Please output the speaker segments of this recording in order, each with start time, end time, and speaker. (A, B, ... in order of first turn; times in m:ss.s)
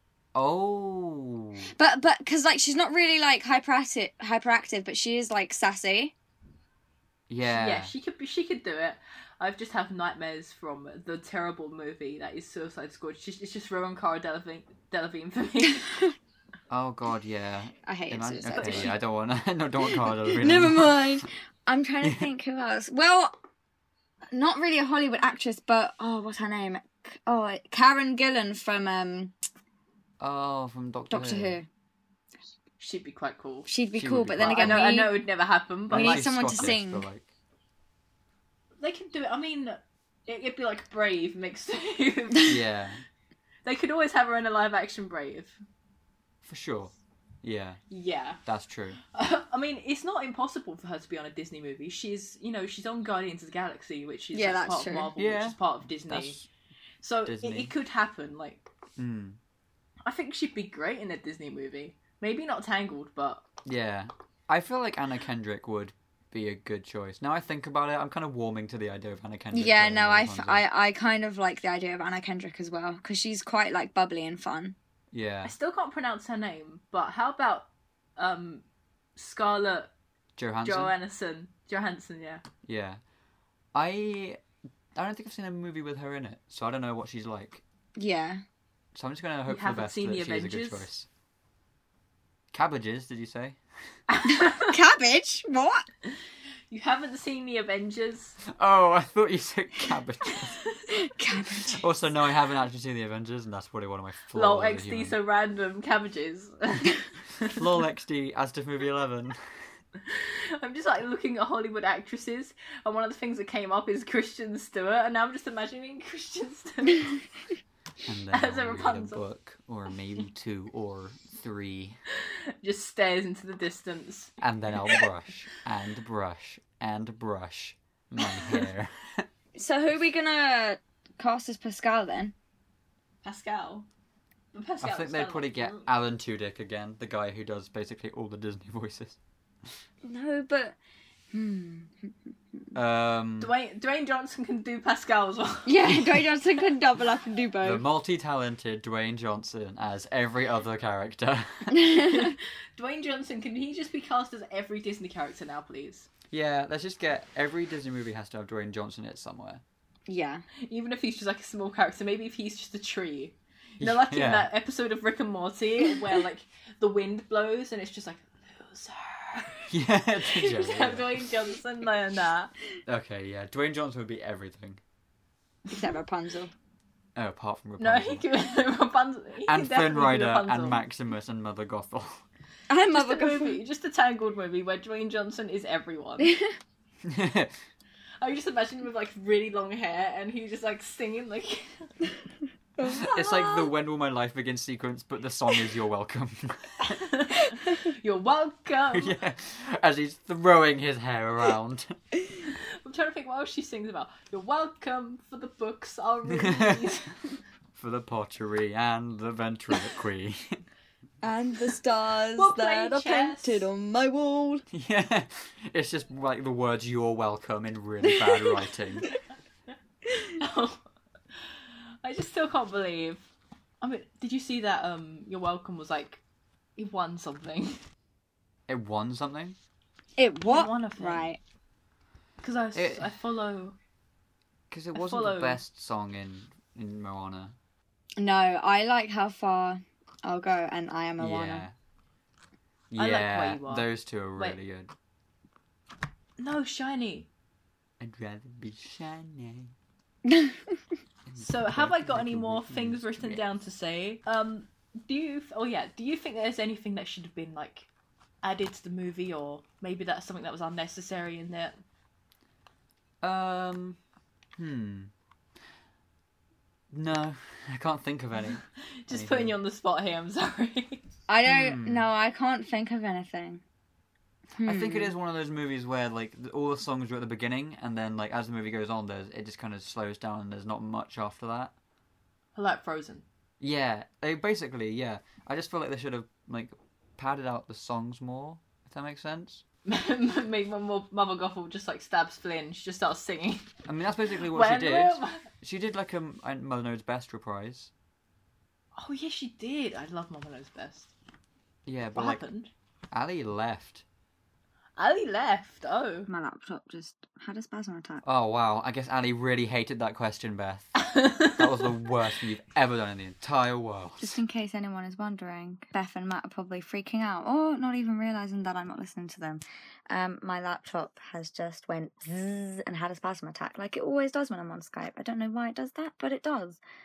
0:00.3-0:01.7 A
0:01.8-0:06.1 B
0:07.3-0:07.9 A
0:07.4-0:16.0 C
0:16.7-0:21.2 A
0:17.8-0:18.9 B
0:18.5-0:19.0 C
0:19.9-0:23.3 B
0:24.3-0:29.3 B
0:30.2-0:31.6 A
0:31.1-0:31.7 B
0:32.8-0:33.7 C
0:33.7-0:35.2 B
0:33.9-0:34.8 A
0:34.4-0:36.7 C
0:35.9-0:37.3 A
0:35.9-0:37.1 B
0:38.8-0:42.6 C
0:42.5-0:43.0 A
0:43.6-0:45.6 C
0:46.5-0:47.8 A
0:47.9-0:48.4 C
0:48.5-0:49.0 A
0:49.1-0:56.4 C
0:54.3-0:55.1 B
0:55.2-0:56.5 A
0:57.0-0:58.6 C
0:57.3-0:57.8 A
0:59.0-0:59.4 A
1:00.0-1:03.4 C
1:03.6-1:10.6 A
1:09.5-1:14.8 B
1:15.1-1:15.5 A
1:15.4-1:18.6 C
1:19.2-1:19.9 C
1:20.4-1:20.9 A
1:20.6-1:22.4 C
1:22.6-1:23.0 A
1:23.8-1:24.4 A
1:25.0-1:27.6 A
1:28.0-1:28.4 B
1:29.0-1:31.1 A
1:29.5-1:30.9 C
1:32.5-1:33.6 A
1:34.1-1:34.8 C
1:34.3-1:35.8 B
1:36.7-1:38.4 C
1:38.6-1:40.6 A
1:40.3-1:40.9 C
1:40.9-1:41.8 B
1:41.7-1:45.2 A
1:44.3-1:47.6 C
1:47.6-1:49.4 A
1:50.0-1:57.2 C
1:58.1-2:02.0 A
1:58.3-1:59.2 C
2:02.2-2:05.0 C
2:04.4-2:09.2 A
2:08.2-2:08.7 C
2:09.6-2:12.4 B
2:13.2-2:13.9 C
2:14.5-2:15.9 C
2:14.8-2:19.2 A
2:20.0-2:20.8 B
2:21.3-2:22.7 B
2:22.7-2:23.5 A
2:23.4-2:26.2 C
2:25.7-2:27.8 B
2:27.6-2:31.8 A
2:31.7-2:32.3 B
2:32.0-2:36.1 C
2:36.3-2:39.6 A
2:40.1-2:40.4 B
2:40.7-2:49.7 C
2:43.8-2:44.5 A
2:49.7-2:51.3 A
2:50.2-2:52.5 C
2:52.9-2:54.8 A
2:55.7-2:56.5 B
2:57.2-2:58.2 A
2:57.8-3:00.8 C
2:59.5-3:02.2 A
3:02.7-3:03.6 B
3:02.9-3:06.3 C
3:06.2-3:06.5 B
3:07.0-3:07.5 A
3:08.2-3:11.9 C
3:12.8-3:13.3 B
3:12.9-3:13.6 C
3:13.0-3:17.0 A
3:16.9-3:19.2 C
3:18.9-3:22.0 A
3:22.5-3:27.1 C
3:26.3-3:26.9 A
3:27.8-3:30.6 A
3:31.2-3:34.6 B
3:32.4-3:33.7 C
3:34.7-3:39.1 A
3:38.0-3:38.7 B
3:40.4-3:40.8 C
3:42.0-3:43.3 C
3:43.8-3:46.2 C
3:46.8-3:47.8 C
3:48.7-3:49.6 A
3:50.2-3:51.4 B
3:50.5-3:51.3 C
3:52.4-3:53.8 C
3:52.8-3:53.1 A
3:54.7-3:57.6 A
3:55.0-3:55.6 C
3:58.2-4:01.7 B
4:01.2-4:01.7 A
4:02.9-4:04.9 A
4:03.0-4:04.6 C
4:06.4-4:07.3 C
4:08.0-4:09.7 A
4:10.2-4:10.8 B
4:11.3-4:13.4 A
4:11.4-4:17.9 C
4:18.4-4:21.8 C
4:23.2-4:24.0 A
4:24.6-4:25.1 A
4:26.9-4:29.6 A
4:29.0-4:31.0 C
4:31.3-4:33.6 B
4:31.5-4:32.1 A
4:34.5-4:35.1 B
4:34.6-4:41.7 A
4:42.6-4:43.2 C
4:43.6-4:49.6 A
4:49.9-4:53.7 C
4:53.9-4:57.9 A
4:54.4-4:55.4 C
4:59.0-5:01.1 C
5:01.9-5:02.4 A
5:02.2-5:02.7 C
5:03.1-5:04.0 A
5:05.0-5:06.3 C
5:06.3-5:08.2 B
5:08.2-5:14.4 A
5:11.0-5:11.9 C
5:14.2-5:26.8 B